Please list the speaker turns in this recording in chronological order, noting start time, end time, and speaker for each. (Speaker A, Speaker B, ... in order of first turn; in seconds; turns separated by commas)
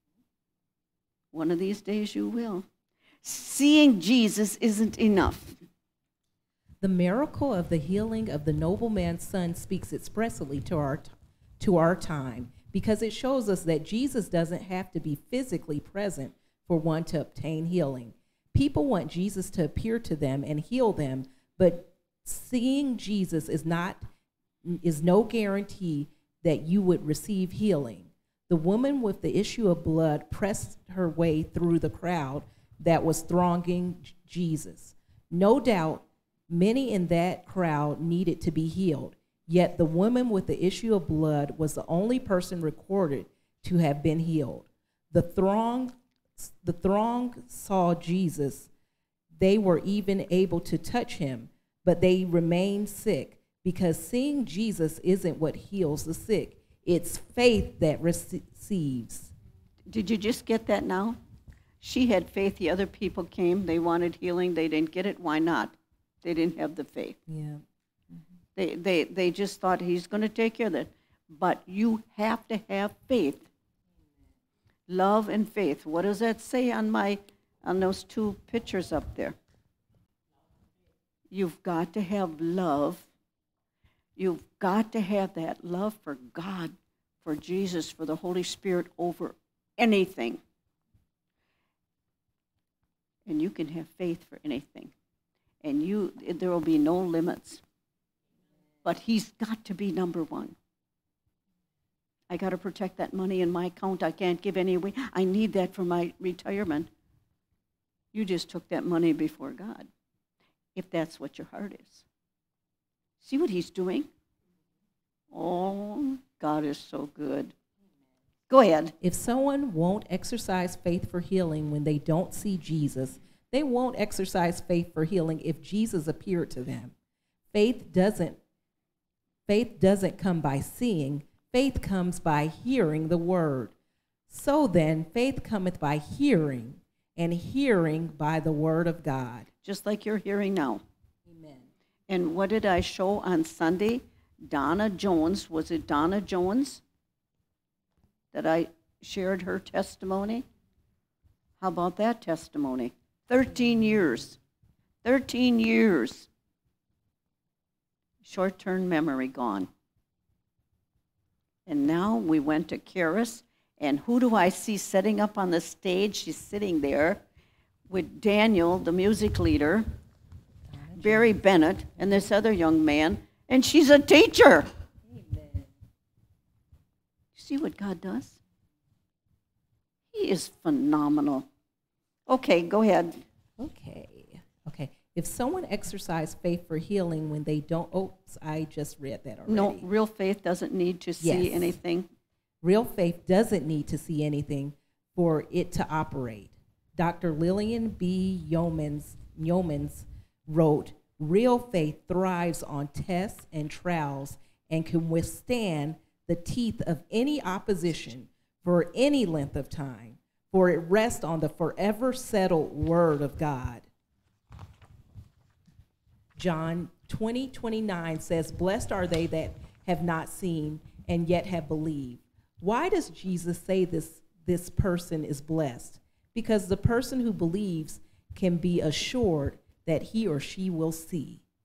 Speaker A: 1.3-2.6, Speaker A: 3.2-5.6, Speaker B: 6.8-24.1, Speaker B: 24.6-48.7, Speaker B: 49.4-59.3, Speaker A: 59.9-61.2, Speaker A: 61.8-67.2, Speaker B: 67.3-67.6, Speaker A: 68.5-73.5, Speaker A: 74.9-79.3, Speaker A: 81.3-83.1, Speaker A: 84.2-90.4, Speaker A: 93.2-94.9, Speaker A: 95.6-97.6, Speaker A: 98.8-100.5, Speaker A: 102.3-106.9, Speaker A: 108.1-109.9, Speaker A: 110.8-112.0, Speaker A: 113.2-114.1, Speaker A: 115.3-117.5, Speaker A: 118.5-118.9, Speaker B: 119.0-126.9, Speaker B: 127.5-128.4, Speaker B: 129.5-133.7, Speaker B: 134.3-139.5, Speaker A: 139.6-140.8, Speaker B: 141.3-141.7, Speaker A: 142.1-146.8, Speaker A: 148.3-150.4, Speaker A: 151.6-154.4, Speaker A: 155.0-156.3, Speaker A: 158.2-159.7, Speaker A: 161.7-167.2, Speaker A: 167.9-169.9, Speaker B: 170.7-171.4, Speaker A: 170.9-174.7, Speaker B: 175.1-175.6, Speaker A: 177.3-178.4, Speaker A: 180.1-181.5, Speaker A: 182.3-183.2, Speaker B: 183.6-189.8, Speaker A: 189.5-192.1, Speaker B: 191.2-191.7, Speaker B: 192.6-213.9, Speaker B: 216.3-231.4